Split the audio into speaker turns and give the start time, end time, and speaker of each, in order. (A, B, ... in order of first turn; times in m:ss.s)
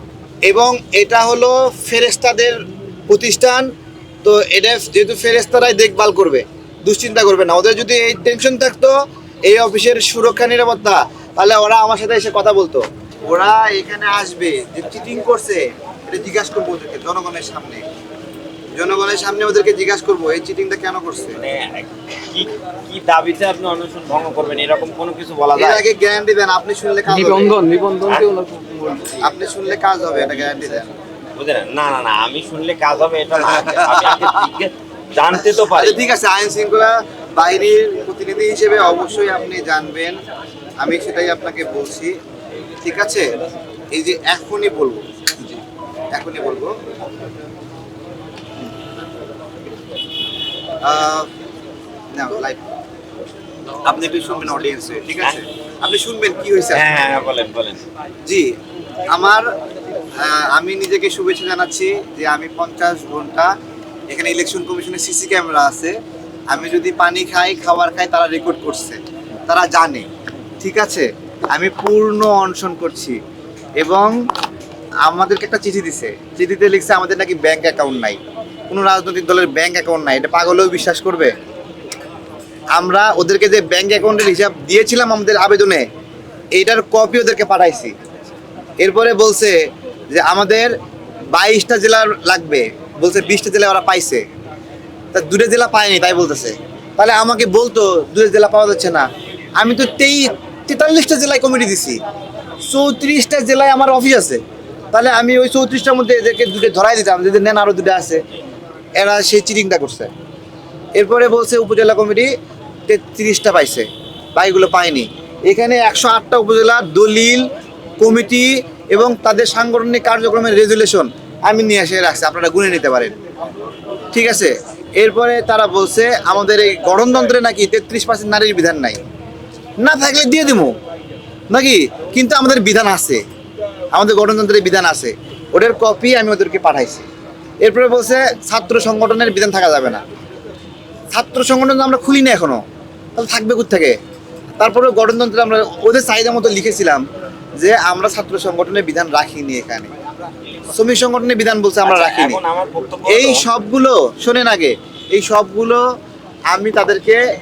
0:00.5-0:02.6 A
0:03.1-0:03.7 A
0:04.2-0:08.9 A
0:09.5-0:17.8 A
0:18.8-0:21.4 A
0:21.4-0:25.8 B
0:25.6-0:27.6 A
0:27.1-0:29.3 C
0:29.2-0:30.9 A
0:31.4-0:36.0 B
0:33.5-0:34.4 A
0:35.6-0:40.2 A
0:40.8-0:42.2 A
0:42.8-0:43.3 A
0:43.9-0:45.6 A
0:46.1-0:46.7 A
0:50.8-0:51.3 A
0:52.2-0:52.6 A
0:53.8-0:56.9 A
0:56.7-0:57.8 B
0:58.3-0:58.5 A
0:59.1-0:59.5 A
1:00.2-1:03.5 A
1:04.1-1:06.0 A
1:06.5-1:10.1 A
1:10.6-1:13.2 A
1:13.8-1:14.1 A
1:15.1-1:21.3 A
1:22.8-1:25.9 A
1:26.6-1:27.9 A
1:28.8-1:29.6 A
1:30.1-1:30.7 A
1:31.4-1:34.2 A
1:35.1-1:39.1 A
1:39.6-1:42.0 A
1:42.6-1:44.4 A
1:44.9-1:48.2 A
1:49.0-1:50.1 A
1:51.0-1:52.3 A
1:52.9-1:57.5 A
1:58.0-2:03.1 A
2:04.1-2:09.0 A
2:09.8-2:10.8 A
2:11.5-2:13.2 A
2:13.9-2:17.0 A
2:17.6-2:20.0 A
2:21.1-2:22.6 A
2:23.2-2:24.0 A
2:24.6-2:27.0 A
2:27.6-2:29.9 A
2:30.7-2:32.4 A
2:31.8-2:33.5 B
2:33.1-2:35.8 A
2:36.5-2:37.2 A